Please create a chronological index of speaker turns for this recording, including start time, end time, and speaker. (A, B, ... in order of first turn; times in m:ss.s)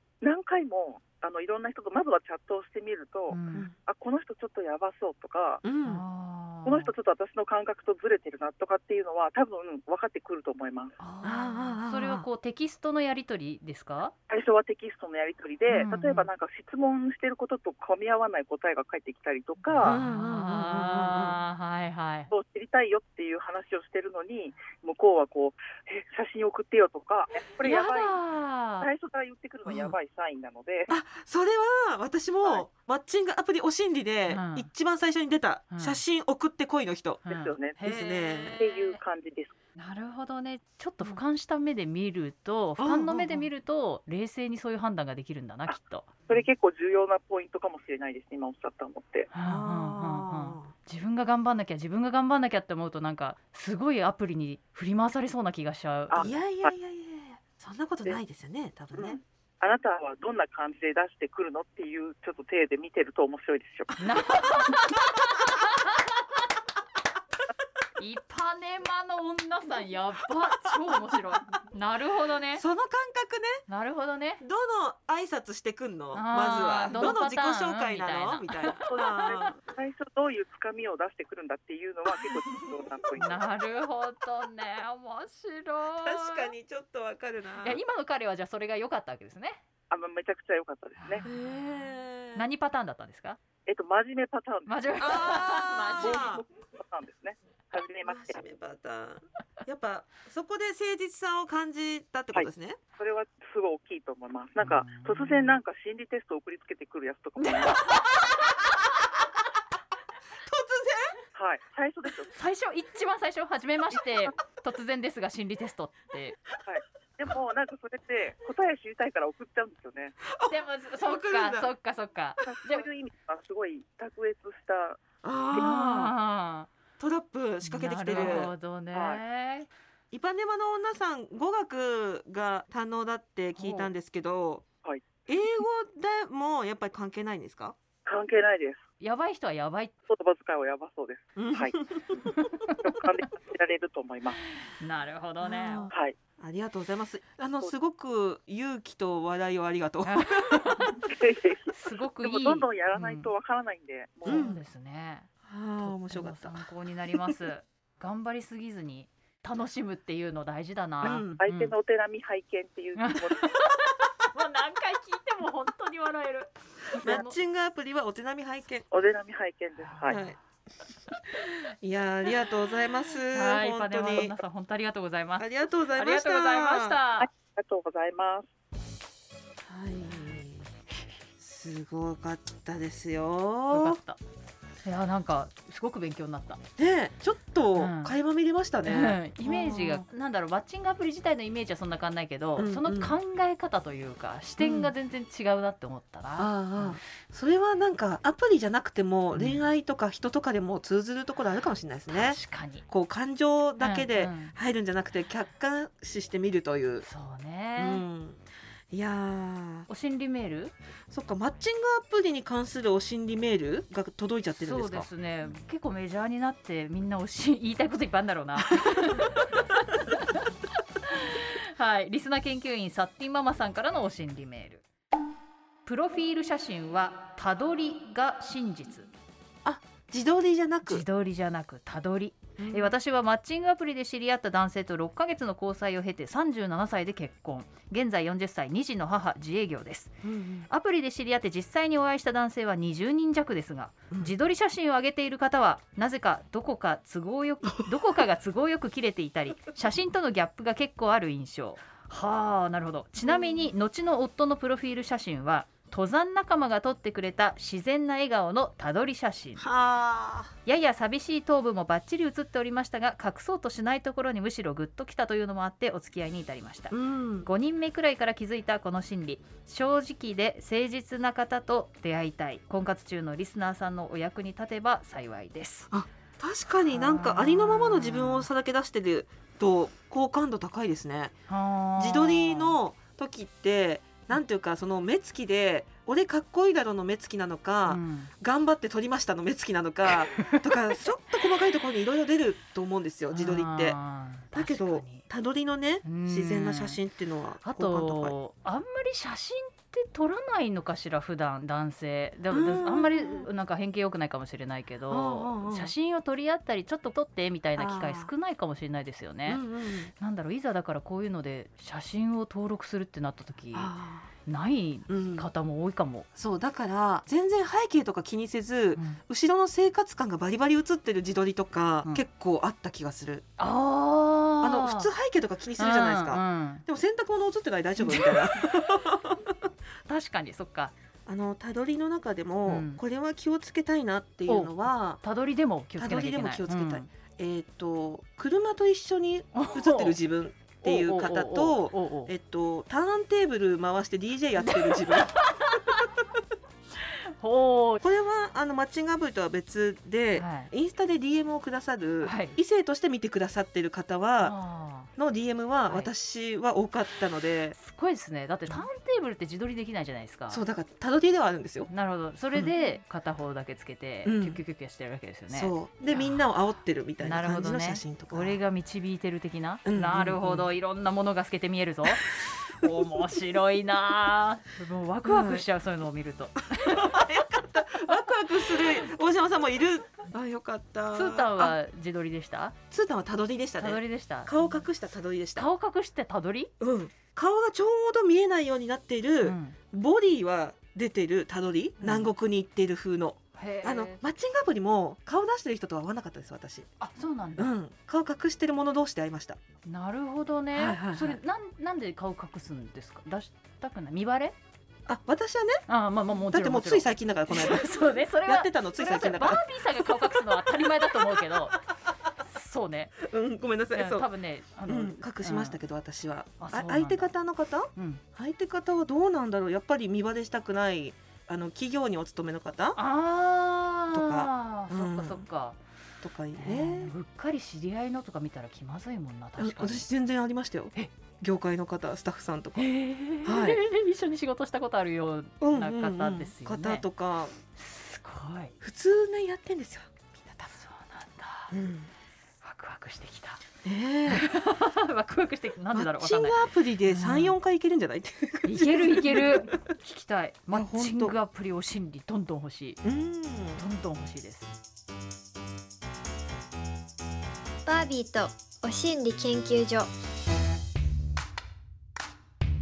0:00.2-0:05.6 A
0:03.3-0:03.6 B
0:05.6-0:06.0 C
0:05.8-0:06.9 B
0:06.6-0:11.0 A
0:11.0-0:14.1 B
0:11.2-0:12.2 C
0:14.3-0:20.0 A
0:15.7-0:16.3 B
0:19.6-0:22.3 B
0:19.8-0:21.4 C
0:22.3-0:28.2 A
0:27.6-0:28.9 B
0:28.8-0:30.9 A
0:29.7-0:29.9 C
0:30.9-0:37.2 C
0:34.3-0:34.7 B
0:35.7-0:36.0 B
0:37.2-0:39.0 B
0:37.3-0:37.8 A
0:37.8-0:38.6 C
0:38.6-0:39.5 A
0:39.8-0:46.1 B
0:42.8-0:43.5 C
0:46.3-0:49.3 A
0:49.3-0:56.3 B
0:49.4-0:50.7 C
0:56.1-0:56.7 A
0:56.2-0:59.2 C
0:58.9-1:04.0 A
1:04.0-1:06.4 B
1:08.0-1:12.6 B
1:12.6-1:13.6 C
1:13.7-1:14.4 B
1:14.4-1:19.5 C
1:16.1-1:19.4 B
1:18.9-1:23.4 A
1:22.5-1:23.2 C
1:23.2-1:26.5 B
1:26.0-1:27.8 C
1:27.6-1:29.6 B
1:29.9-1:31.2 A
1:31.0-1:31.6 B
1:31.2-1:32.4 C
1:32.3-1:33.4 B
1:33.6-1:35.3 A
1:34.7-1:36.3 B
1:35.0-1:36.4 C
1:36.0-1:38.4 A
1:38.0-1:42.8 C
1:42.3-1:48.0 A
1:44.6-1:45.6 B
1:47.4-1:48.1 B
1:48.0-1:48.3 C
1:50.4-1:51.2 C
1:51.3-1:52.3 A
1:52.3-1:56.4 B
1:56.6-2:00.2 A
2:00.2-2:01.7 C
2:00.5-2:02.8 B
2:02.4-2:05.0 A
2:05.2-2:06.1 C
2:05.5-2:06.7 B
2:07.0-2:08.5 C
2:07.6-2:09.7 B
2:08.1-2:09.2 A
2:10.1-2:14.6 C
2:13.6-2:13.9 B
2:15.3-2:17.8 C
2:18.0-2:18.8 A
2:19.0-2:19.9 B
2:20.1-2:21.8 A
2:21.4-2:22.4 C
2:22.2-2:22.8 B
2:22.8-2:24.4 A
2:24.8-2:25.9 B
2:25.4-2:30.7 C
2:30.0-2:31.0 B
2:31.0-2:34.5 A
2:31.7-2:33.3 B
2:34.2-2:34.6 C
2:34.2-2:35.3 B
2:35.4-2:36.6 C
2:35.8-2:41.7 B
2:41.0-2:41.4 C
2:41.0-2:43.5 A
2:43.0-2:47.3 B
2:47.0-2:48.8 C
2:48.9-2:50.2 A
2:50.1-2:50.4 C
2:51.4-2:54.3 C
2:53.3-2:57.3 B
2:55.4-2:57.0 C
2:57.2-2:58.5 A
2:59.6-3:00.7 C
3:01.4-3:04.0 C
3:03.7-3:04.2 B
3:04.8-3:06.6 B
3:06.8-3:10.0 C
3:07.8-3:08.2 B
3:08.8-3:17.0 B
3:12.6-3:13.2 C
3:14.6-3:14.9 C
3:16.4-3:27.0 C
3:19.3-3:19.6 B
3:22.1-3:22.8 B
3:23.8-3:24.5 B
3:27.0-3:28.0 B
3:27.8-3:29.9 C
3:29.9-3:30.7 B
3:31.1-3:35.1 C
3:34.6-3:40.4 B
3:41.0-3:44.8 B
3:45.8-3:49.1 B
3:49.6-3:51.0 C
3:50.8-4:19.7 B
3:52.6-3:52.9 C
4:00.2-4:00.7 C
4:13.2-4:13.6 C
4:19.6-4:20.5 C
4:20.6-4:35.9 B
4:26.9-4:27.5 C
4:35.9-4:41.4 C
4:36.9-4:38.5 B
4:41.5-4:42.8 B
4:42.0-4:54.0 C
4:47.9-4:48.3 B
4:50.4-4:50.6 B
4:53.3-4:55.2 B
4:54.5-4:58.3 C
4:56.0-4:57.0 B
4:57.6-5:09.6 B
5:02.5-5:03.5 C
5:05.1-5:05.9 C
5:07.8-5:08.3 C
5:09.5-5:10.1 C
5:10.2-5:13.9 B
5:13.7-5:14.3 C
5:14.4-5:16.3 B
5:15.1-5:15.5 C
5:16.3-5:23.5 C
5:18.9-5:19.2 B
5:23.6-5:25.1 B
5:24.6-5:29.7 C
5:25.8-5:26.8 B
5:28.0-5:28.4 B
5:30.1-5:30.9 B
5:31.2-5:35.2 C
5:32.7-5:33.0 B
5:34.5-5:37.1 B
5:36.0-5:46.4 C
5:39.5-5:40.2 B
5:40.8-5:42.3 B
5:44.6-5:46.1 B
5:47.0-5:48.0 B
5:48.0-5:54.6 C
5:50.4-5:50.7 B
5:52.2-5:52.6 B
5:54.4-5:55.1 B
5:55.1-5:57.8 C
5:57.8-6:00.6 B
6:00.5-6:01.9 C
6:01.9-6:06.4 B
6:04.2-6:04.6 C
6:05.5-6:08.6 C
6:07.2-6:17.3 B
6:09.8-6:10.7 C
6:15.2-6:15.6 C
6:16.8-6:21.8 C
6:21.1-6:22.8 B
6:22.9-6:25.7 C
6:23.8-6:24.5 B
6:25.6-6:26.7 B
6:26.8-6:36.9 C
6:29.4-6:29.8 B
6:32.0-6:32.3 B
6:33.6-6:34.2 B
6:37.0-6:37.7 B
6:37.6-6:39.6 C
6:39.9-6:44.5 B
6:40.7-6:41.4 C
6:45.1-6:45.8 C
6:45.9-6:51.9 B
6:46.5-6:52.1 C
6:52.4-6:53.2 B
6:53.2-6:54.3 C
6:53.9-6:55.8 B
6:54.8-7:03.0 C
6:56.6-6:57.3 B
6:57.9-6:58.2 B
7:03.0-7:05.8 B
7:04.1-7:05.4 C
7:06.2-7:07.1 C
7:06.6-7:10.0 B
7:09.6-7:12.8 C
7:12.8-7:17.0 B
7:13.4-7:13.8 C
7:15.6-7:17.5 C
7:17.8-7:18.7 B
7:18.8-7:20.6 C
7:20.6-7:21.7 B
7:21.7-7:22.1 C
7:22.6-7:23.6 B
7:23.8-7:24.4 C
7:24.3-7:27.5 B
7:25.9-7:29.8 C
7:28.6-7:33.0 B
7:30.7-7:31.4 C
7:33.0-7:33.8 C
7:33.8-7:34.7 B
7:37.8-7:40.1 D